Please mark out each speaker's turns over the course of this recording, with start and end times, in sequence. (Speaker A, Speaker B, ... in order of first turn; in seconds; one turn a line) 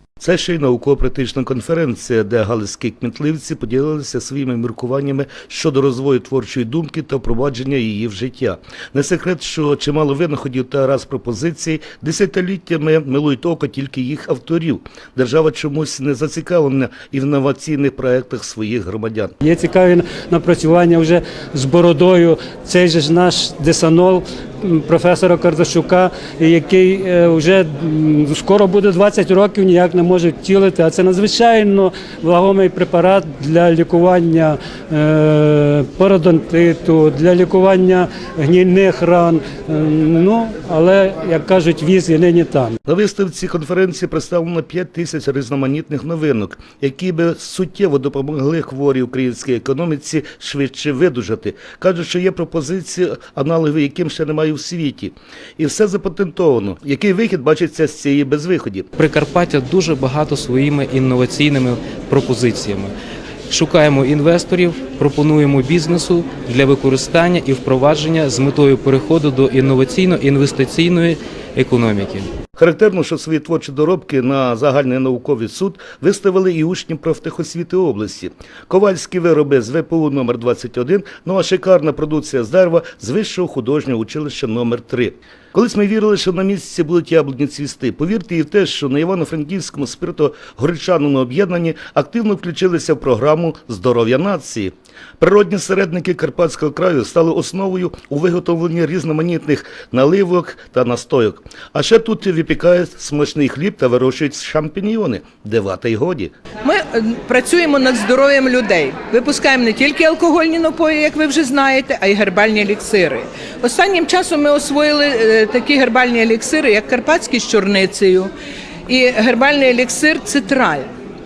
Speaker A: 0.2-19.3
Speaker B: 19.4-42.8
Speaker A: 42.9-58.9
Speaker C: 59.0-62.9
Speaker C: 63.5-72.3
Speaker A: 72.5-106.3
Speaker D: 106.6-118.3
Speaker D: 118.9-120.9